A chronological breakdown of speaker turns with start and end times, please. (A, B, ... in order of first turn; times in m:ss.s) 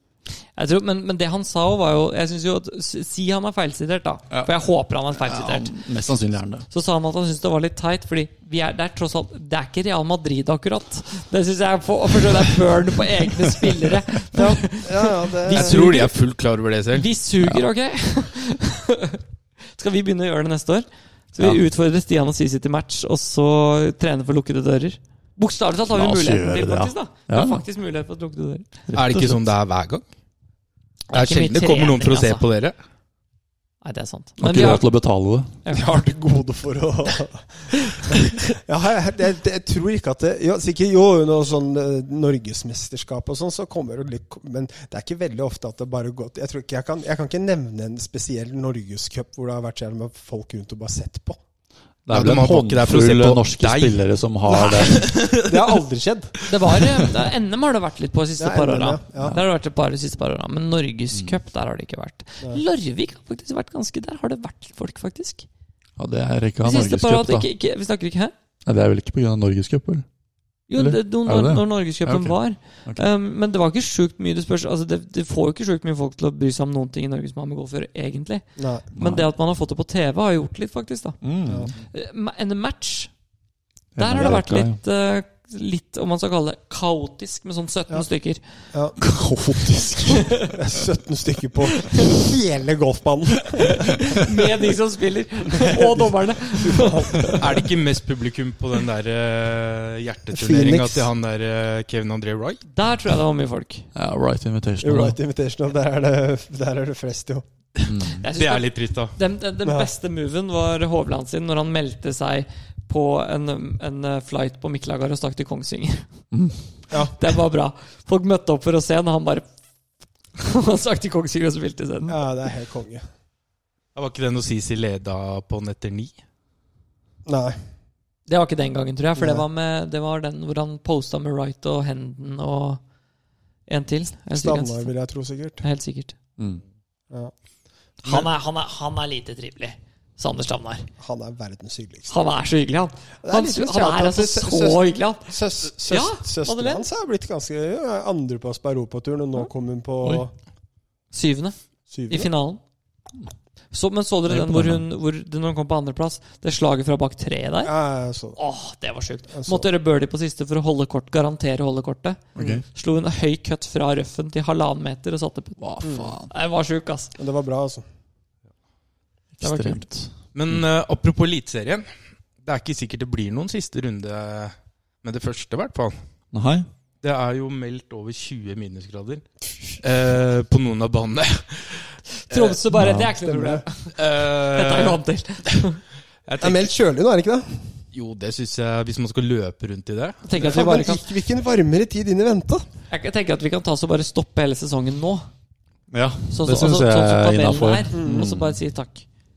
0:00.6-0:05.8 A
0:05.1-0:06.6 B
0:06.7-0:16.1 A
0:14.3-0:15.8 C
0:15.5-0:17.0 D
0:16.9-0:28.7 A
0:25.9-0:27.6 B
0:28.9-0:29.4 B
0:28.9-0:30.0 D
0:31.1-0:32.4 A
0:31.1-0:32.7 D
0:33.8-0:34.9 A
0:34.4-0:35.5 B
0:35.6-0:36.0 A
0:35.7-0:51.4 C
0:52.0-0:55.1 B
0:52.1-0:54.0 D
0:54.4-0:56.4 C
0:54.7-0:55.8 D
0:56.4-1:05.4 A
0:58.4-0:59.4 C
1:01.1-1:01.4 B
1:06.0-1:07.5 B
1:06.6-1:08.3 A
1:08.6-1:10.0 B
1:10.7-1:21.2 A
1:10.8-1:13.0 B
1:18.6-1:18.9 C
1:18.9-1:19.3 B
1:21.2-1:21.8 B
1:21.5-1:21.7 C
1:21.9-1:23.1 A
1:23.9-1:24.8 B
1:24.0-1:28.4 A
1:28.7-1:29.0 C
1:29.0-1:30.3 B
1:30.0-1:30.5 A
1:30.4-1:34.3 C
1:31.7-1:32.2 A
1:33.7-1:37.5 A
1:35.5-1:37.6 C
1:37.4-1:42.6 D
1:40.3-1:41.1 C
1:42.7-1:43.9 A
1:43.9-1:45.2 B
1:44.8-1:47.4 C
1:47.8-1:49.1 D
1:47.8-1:48.2 B
1:48.2-1:56.1 A
1:49.6-1:49.9 C
1:56.9-1:59.5 A
2:00.4-2:02.2 A
2:02.1-2:03.0 C
2:03.9-2:06.1 D
2:07.3-2:07.6 C
2:08.3-2:12.8 A
2:09.2-2:09.4 C
2:13.7-2:14.9 A
2:14.3-2:15.6 C
2:15.6-2:16.2 A
2:16.4-2:16.6 B
2:18.0-2:20.9 A
2:21.0-2:22.1 C
2:22.1-2:25.3 A
2:23.2-2:30.3 C
2:25.8-2:26.9 A
2:31.1-2:31.6 A
2:31.9-2:32.3 C
2:32.1-2:32.6 A
2:33.7-2:37.7 A
2:34.3-2:34.8 B
2:37.6-2:38.4 C
2:38.4-2:45.6 A
2:39.3-2:39.7 C
2:42.3-2:42.6 B
2:45.6-2:46.3 B
2:45.8-2:46.2 C
2:46.3-2:47.1 A
2:47.2-2:47.8 C
2:49.4-2:50.6 B
2:49.4-2:49.9 A
2:50.3-2:51.9 D
2:52.4-2:56.0 D
2:56.3-2:56.7 B
2:57.0-3:02.6 D
3:02.3-3:05.8 A
3:02.8-3:03.1 B
3:03.2-3:03.6 C
3:03.9-3:05.0 D
3:06.3-3:06.7 D
3:06.4-3:07.6 C
3:07.9-3:10.4 D
3:10.2-3:11.0 A
3:10.4-3:12.6 C
3:12.9-3:15.3 A
3:15.9-3:18.6 B
3:16.3-3:19.0 A
3:17.9-3:18.3 C